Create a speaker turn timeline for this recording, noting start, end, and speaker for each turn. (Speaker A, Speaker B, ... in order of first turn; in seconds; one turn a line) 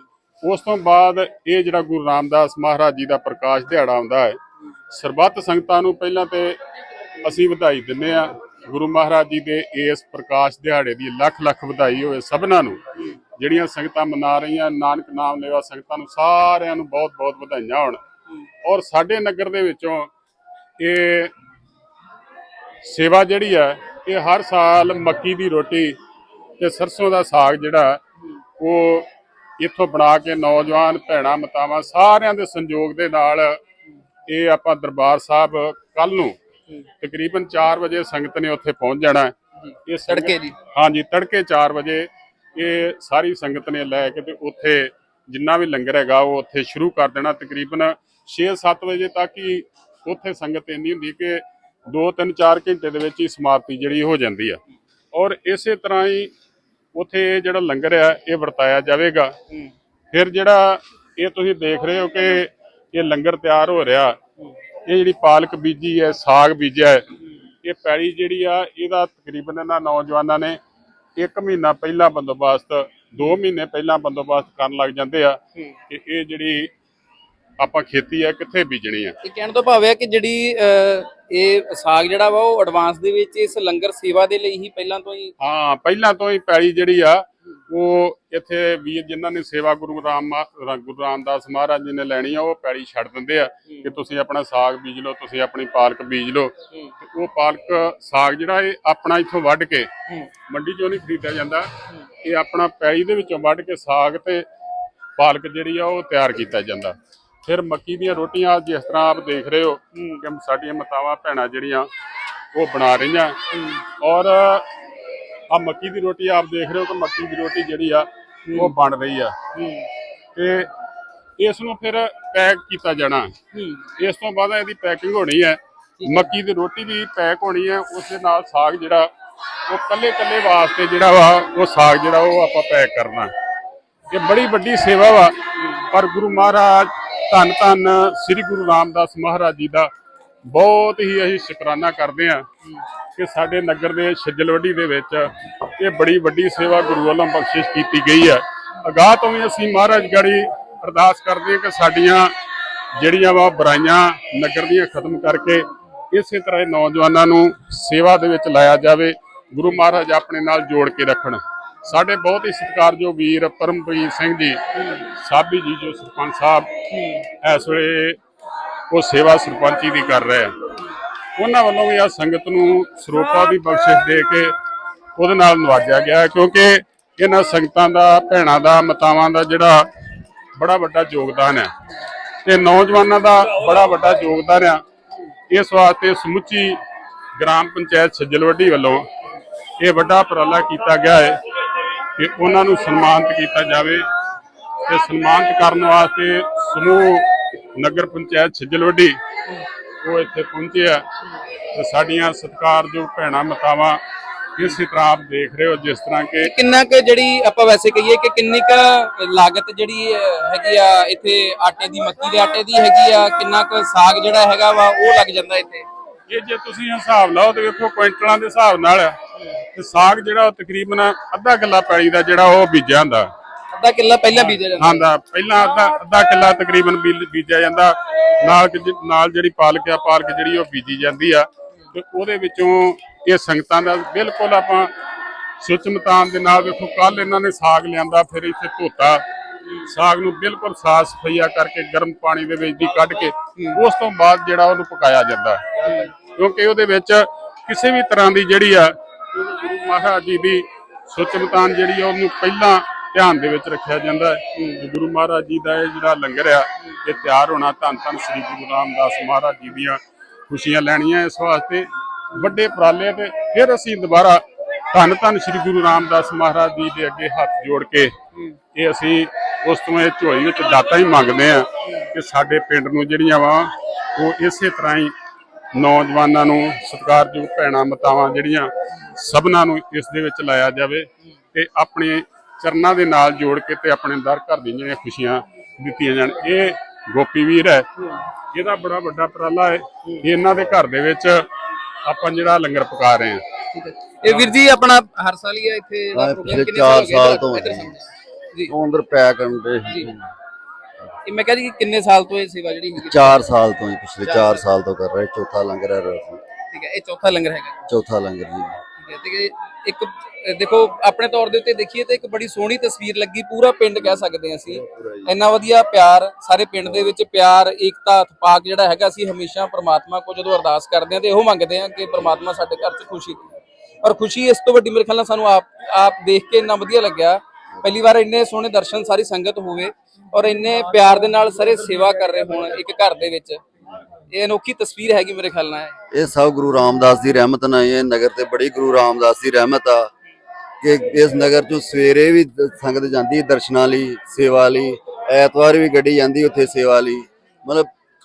Speaker A: 0.4-4.4
Speaker A: 4.9-6.6
Speaker A: 7.2-12.8
Speaker A: 13.4-18.0
Speaker A: 18.6-20.1
Speaker A: 20.8-21.3
Speaker A: 22.8-26.0
Speaker A: 26.6-28.0
Speaker A: 28.6-29.1
Speaker A: 29.6-33.6
Speaker A: 34.3-36.4
Speaker A: 37.0-39.3
Speaker A: 39.9-54.6
Speaker B: 40.1-40.5
Speaker A: 55.1-56.3
Speaker A: 56.9-59.3
Speaker A: 60.1-64.2
Speaker A: 64.8-67.0
Speaker A: 67.6-70.6
Speaker A: 71.2-76.7
Speaker A: 77.6-79.2
Speaker B: 79.2-85.3
Speaker A: 85.4-99.9
Speaker B: 93.7-93.9
Speaker A: 100.5-101.7
Speaker A: 102.2-104.5
Speaker A: 105.2-111.9
Speaker A: 112.5-113.4
Speaker B: 113.5-113.8
Speaker A: 114.0-114.7
Speaker A: 115.5-119.3
Speaker B: 118.5-118.7
Speaker B: 119.5-119.9
Speaker A: 120.3-120.7
Speaker A: 121.4-123.3
Speaker B: 123.5-123.8
Speaker A: 124.0-129.1
Speaker B: 126.0-126.3
Speaker A: 129.7-133.3
Speaker A: 134.1-135.4
Speaker A: 135.9-139.9
Speaker A: 140.5-142.4
Speaker A: 143.2-152.3
Speaker A: 153.0-168.2
Speaker B: 166.9-167.2
Speaker A: 168.9-170.5
Speaker A: 171.4-174.6
Speaker A: 175.2-179.9
Speaker A: 180.6-181.7
Speaker A: 182.4-184.8
Speaker A: 185.5-186.8
Speaker A: 187.4-189.1
Speaker A: 189.8-191.4
Speaker A: 192.2-194.1
Speaker A: 194.9-199.2
Speaker A: 200.0-201.1
Speaker A: 201.7-204.0
Speaker A: 204.6-206.5
Speaker B: 206.4-215.9
Speaker A: 216.3-219.2
Speaker A: 219.7-223.3
Speaker B: 223.7-225.1
Speaker A: 224.3-234.9
Speaker A: 235.6-239.2
Speaker A: 239.9-268.1
Speaker B: 245.8-246.1
Speaker B: 254.6-254.8
Speaker A: 268.7-275.1
Speaker A: 275.7-287.9
Speaker A: 288.5-291.5
Speaker A: 292.1-293.4
Speaker B: 293.7-298.7
Speaker A: 294.2-294.5
Speaker C: 296.1-297.9
Speaker C: 298.7-300.3
Speaker B: 301.2-303.4
Speaker C: 303.0-306.4
Speaker B: 304.2-304.6
Speaker B: 306.7-307.8
Speaker C: 307.9-308.8
Speaker B: 309.0-323.4
Speaker C: 314.7-315.3
Speaker B: 324.0-333.6
Speaker B: 334.3-335.9
Speaker C: 336.1-340.1
Speaker C: 340.8-347.9